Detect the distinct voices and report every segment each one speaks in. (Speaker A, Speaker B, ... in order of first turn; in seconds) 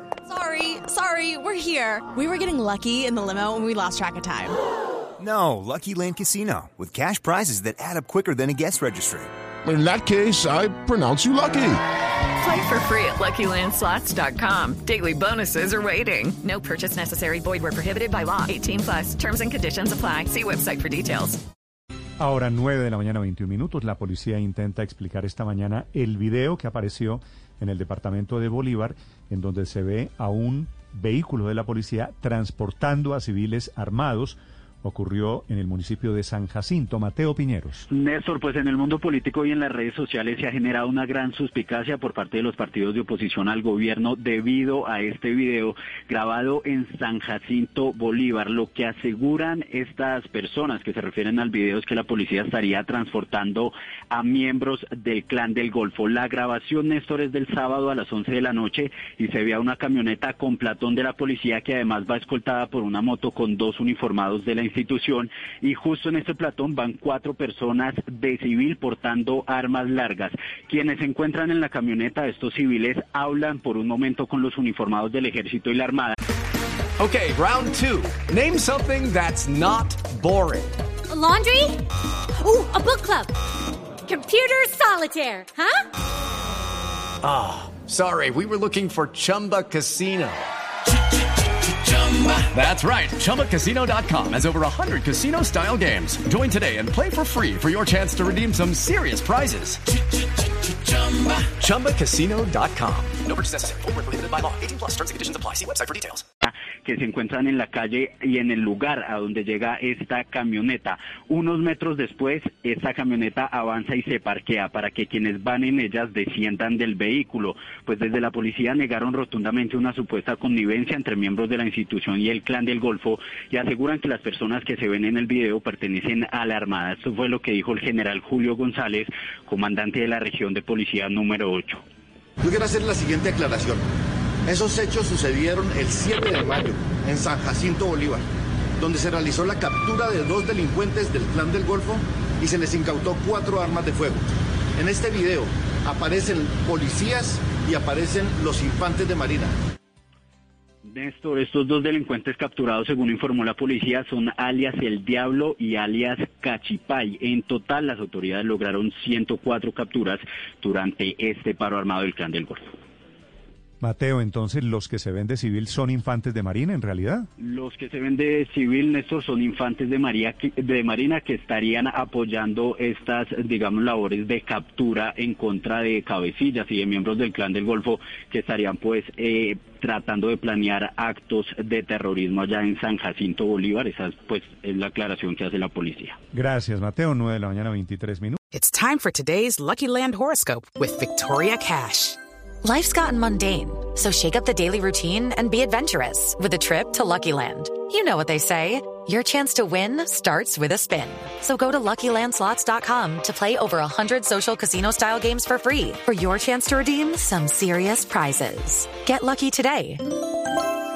Speaker A: 0.3-4.6
Speaker B: 5.2-9.3
Speaker C: 9.6-11.8
Speaker D: 12.4-21.4
Speaker E: 22.2-37.9, 163.8-167.3, 186.3-188.4
Speaker F: 37.9-76.1, 106.4-131.8, 150.8-162.7, 167.4-186.2
Speaker G: 77.0-80.7, 87.2-90.4, 91.9-99.8, 100.9-103.9, 104.5-106.2
Speaker H: 81.1-81.8, 82.4-83.3, 84.0-85.8
Speaker I: 132.4-133.8, 134.4-138.2, 138.8-144.2, 144.8-149.5
Speaker J: 188.5-192.2
Speaker K: 192.6-210.0